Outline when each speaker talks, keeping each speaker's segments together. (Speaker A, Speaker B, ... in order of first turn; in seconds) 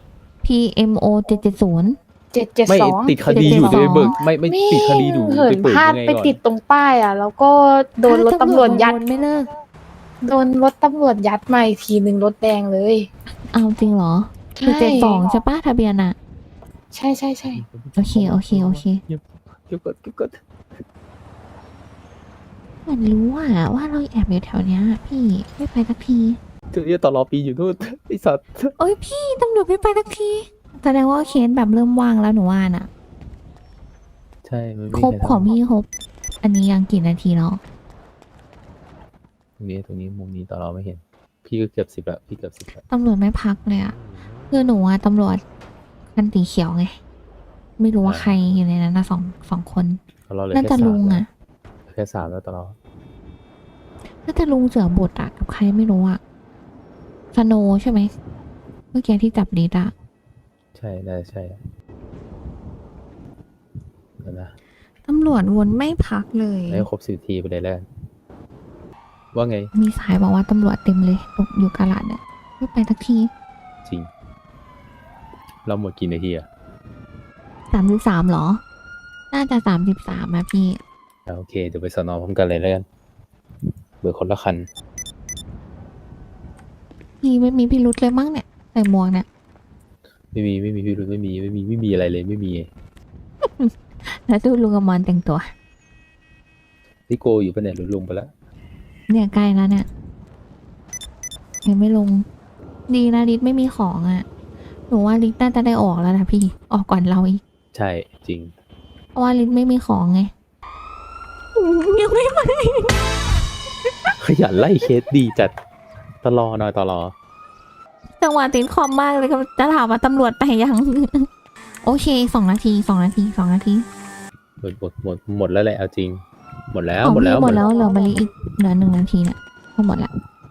Speaker A: 0.4-1.9, 3.4-4.2, 8.1-9.5, 13.5-16.1, 18.0-19.0, 22.8-26.4, 28.8-32.9, 34.9-35.9, 36.4-37.6, 42.9-44.0, 44.5-45.4, 46.1-47.0, 47.8-50.0, 50.5-51.3, 54.2-56.2, 57.3-58.1, 58.9-59.9, 65.0-66.8, 69.7-73.3, 77.7-78.6, 79.3-80.8, 87.2-89.2, 93.5-95.5, 99.1-99.8, 101.6-102.2, 102.9-104.2, 104.9-107.4, 109.1-110.3, 111.5-113.3, 118.2-121.3, 121.8-123.8, 127.0-130.1
Speaker B: 2.3-9.0, 10.2-13.1, 14.6-15.3, 16.9-17.6, 127.4-128.3
Speaker C: 2.7-6.4, 17.5-20.8, 26.7-28.7, 34.4-35.6, 39.6-42.8, 48.0-48.4, 50.3-51.2, 51.9-52.8, 60.7-61.6, 64.2-64.5, 66.7-67.9, 69.3-69.7, 73.8-74.1, 75.6-76.5, 81.3-82.8, 84.0-84.7, 90.3-92.7, 97.1-98.3, 107.7-108.5, 114.2-115.5, 116.2-117.1, 124.6-127.6